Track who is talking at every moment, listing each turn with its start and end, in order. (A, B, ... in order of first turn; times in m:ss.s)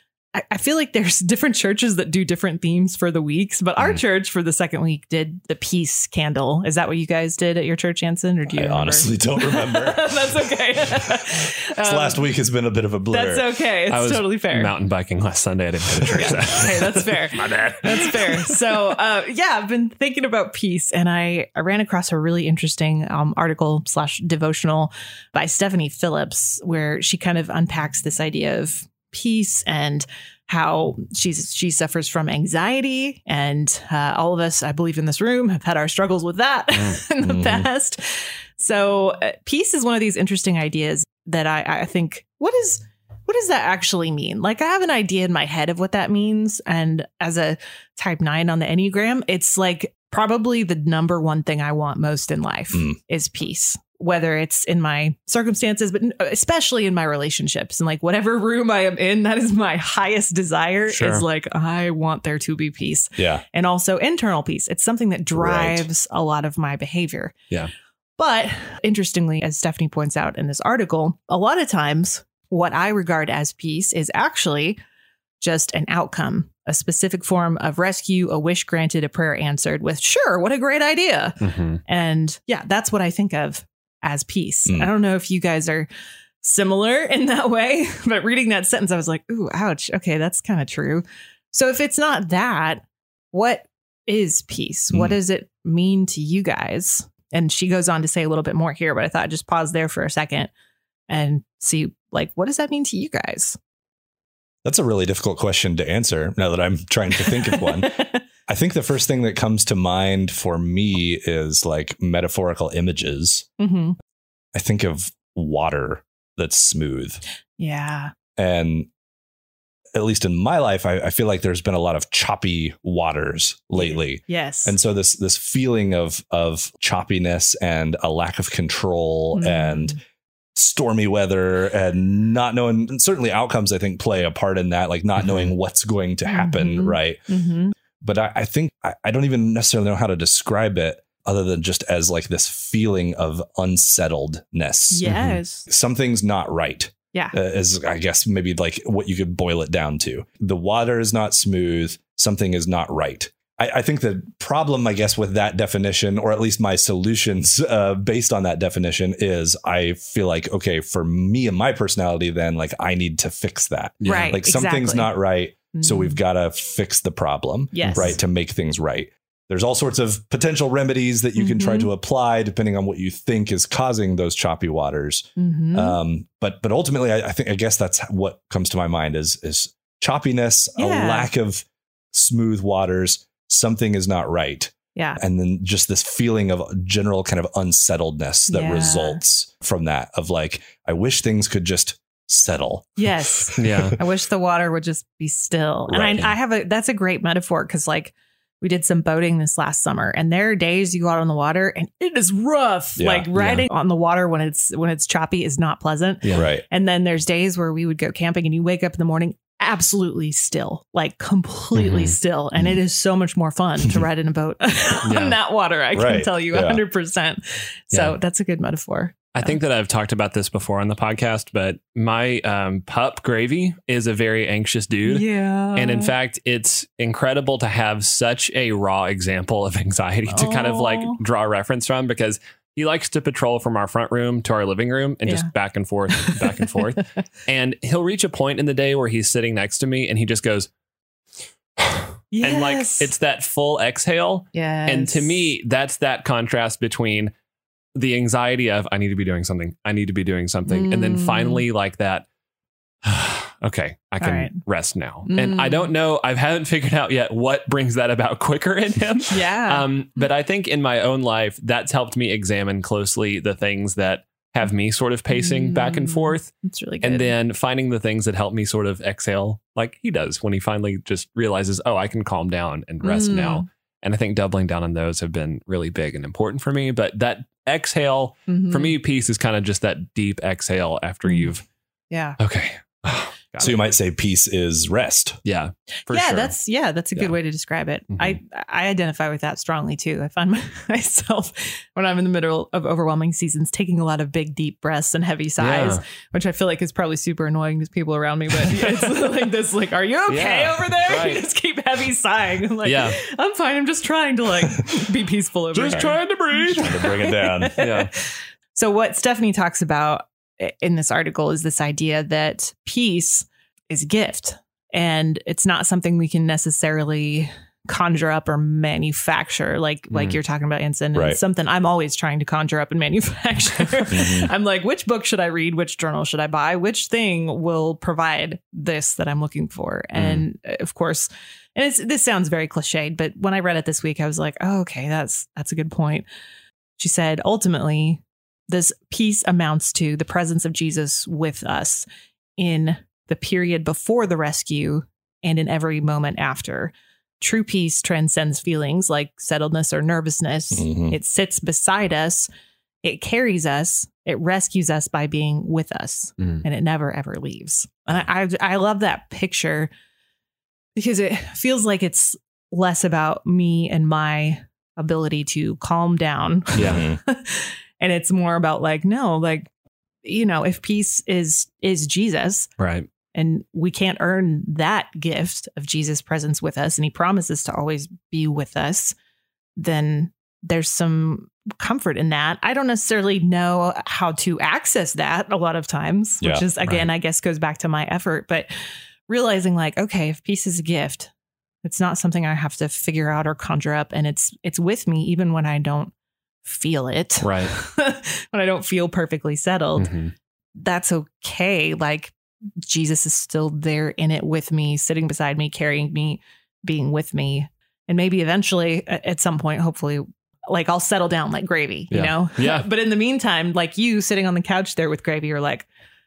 0:00.4-0:12.3 A
0:08.5-0:10.3 B
0:11.8-0:13.5 B
0:13.1-0:14.7 A
0:13.9-0:18.8 C
0:16.1-1:07.3 A
0:37.2-0:37.7 B
1:00.9-1:01.2 C
1:03.2-1:03.4 B
1:05.3-1:05.9 B
1:08.2-1:14.8 A
1:15.4-1:25.9 A
1:21.4-1:21.8 C
1:26.4-1:40.5 A
1:34.9-1:35.2 B
1:41.1-1:43.6 A
1:44.6-1:53.5 B
1:47.2-1:48.2 A
1:53.6-1:54.0 A
1:54.5-1:57.2 B
1:57.6-1:58.1 A
1:58.4-1:58.9 B
1:59.9-2:10.0 B
2:03.8-2:04.8 A
2:09.3-2:10.0 A
2:10.5-2:17.2 B
2:15.2-2:15.5 C
2:16.3-2:17.7 A
2:18.0-2:25.1 B
2:24.9-2:25.7 A
2:25.0-2:25.4 C
2:25.7-3:13.8 B
2:44.0-2:44.4 C
2:44.0-2:45.1 A
2:45.7-2:46.2 A
2:47.7-2:48.2 A
2:47.8-2:48.2 C
2:51.4-2:51.9 A
2:55.4-2:56.0 A
3:00.8-3:01.3 A
3:04.9-3:05.2 A
3:08.5-3:09.2 A
3:13.0-3:39.6 A
3:13.6-3:14.0 C
3:15.9-3:16.3 C
3:23.0-3:23.3 B
3:23.3-3:23.7 C
3:26.3-3:26.6 B
3:31.8-3:32.2 C
3:35.0-3:35.4 C
3:35.9-3:36.8 B
3:37.9-3:38.2 C
3:39.3-4:00.7 C
3:45.0-3:46.1 A
3:50.3-3:51.2 A
3:55.2-3:55.5 A
3:56.1-3:56.4 A
4:01.8-4:07.3 C
4:02.3-4:03.1 A
4:04.5-4:05.4 A
4:07.9-4:12.2 C
4:10.7-4:11.6 A
4:13.0-4:26.5 C
4:14.2-4:14.5 A
4:15.2-4:15.9 A
4:19.3-4:20.2 A
4:25.3-4:27.3 A
4:27.0-4:41.6 C
4:33.0-4:33.6 A
4:38.5-4:39.0 A
4:41.2-4:41.5 A
4:42.1-4:42.4 A
4:42.4-4:43.8 C
4:43.6-4:45.4 B
4:45.4-4:46.5 C
4:46.1-5:08.2 A
4:48.1-4:48.4 C
4:55.6-4:56.0 C
4:58.5-4:59.5 C
5:00.3-5:01.4 C
5:02.8-5:03.2 C
5:05.7-5:07.2 C
5:06.7-5:07.8 B
5:07.8-5:08.1 C
5:08.7-5:36.3 A
5:20.1-5:20.4 C
5:21.1-5:21.4 B
5:24.1-5:24.5 B
5:30.1-5:30.4 C
5:37.0-5:42.1 A
5:42.6-5:52.5 A
5:50.7-5:51.2 B
5:53.0-5:59.9 A
6:01.0-6:09.7 A
6:06.7-6:07.0 C
6:06.8-6:07.2 B
6:10.2-6:12.7 A
6:12.8-6:13.1 C
6:13.3-6:19.1 A
6:19.8-6:28.7 A
6:26.4-6:26.6 B
6:26.8-6:27.1 C
6:29.3-6:31.3 A
6:31.8-6:36.1 A
6:36.6-6:40.1 A
6:37.4-6:37.7 C
6:40.0-6:40.3 C
6:40.8-6:55.9 A
6:52.1-6:52.9 C